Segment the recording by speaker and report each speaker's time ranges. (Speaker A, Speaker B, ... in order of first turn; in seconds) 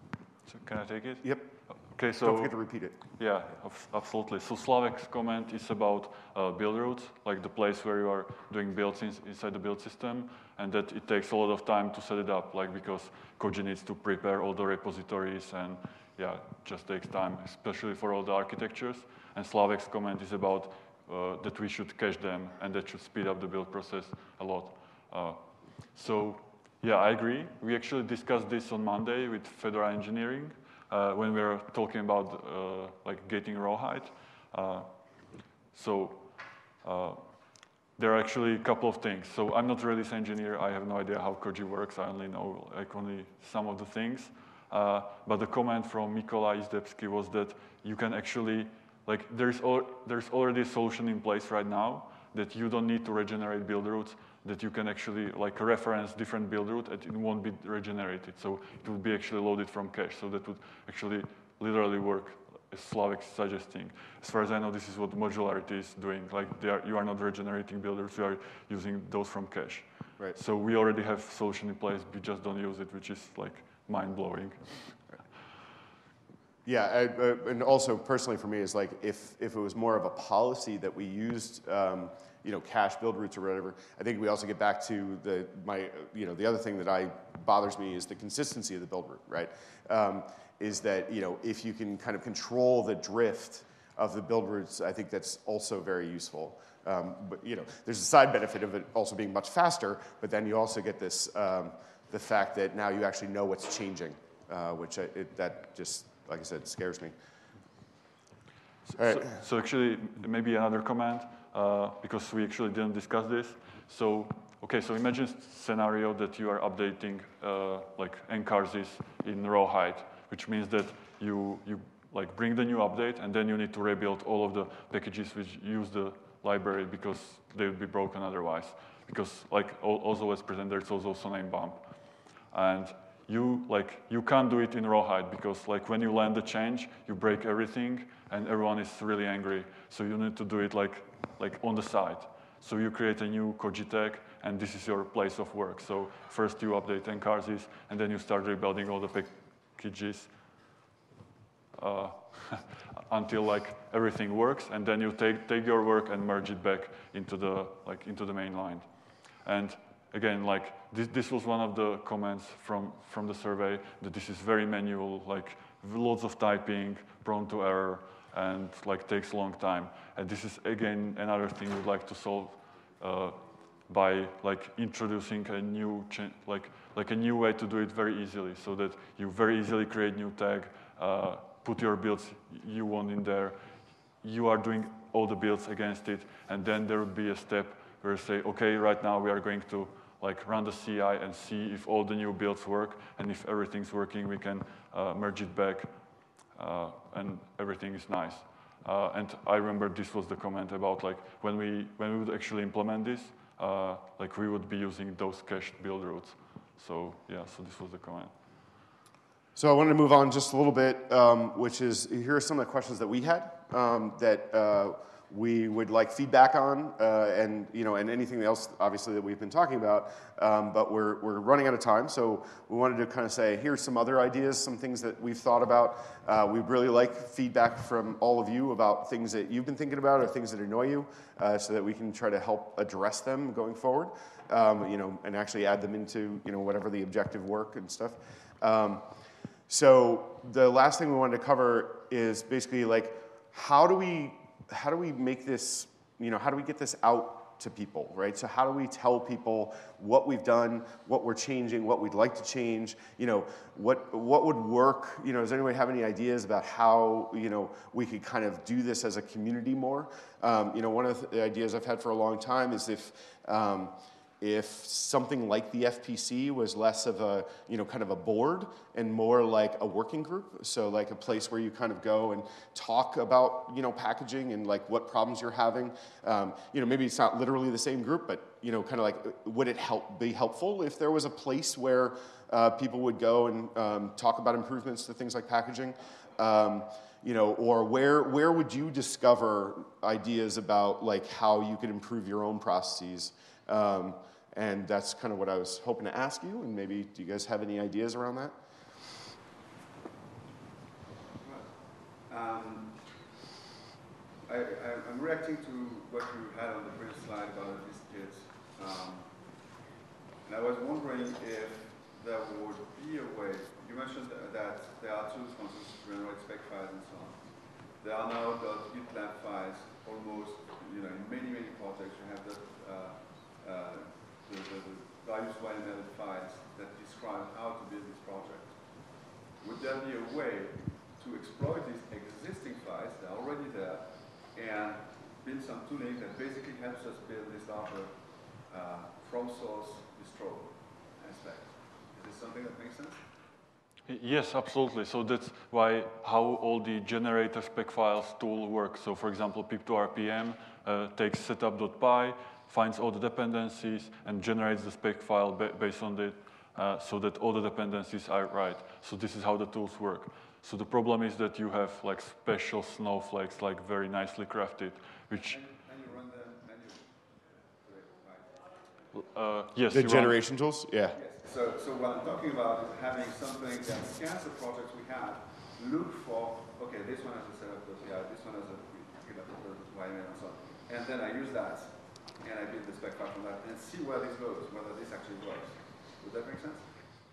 Speaker A: 0.5-2.5, 3.1-75.0, 108.8-150.3, 151.7-183.6, 184.2-208.3, 344.1-365.6, 369.1-370.4
Speaker B: 1.2-1.5, 2.2-3.0, 76.6-107.1, 109.0-109.2, 209.6-239.0, 239.7-298.5, 369.9-371.2
Speaker C: 301.3-303.3, 304.4-309.8, 310.4-343.2, 365.3-368.8, 371.1-386.9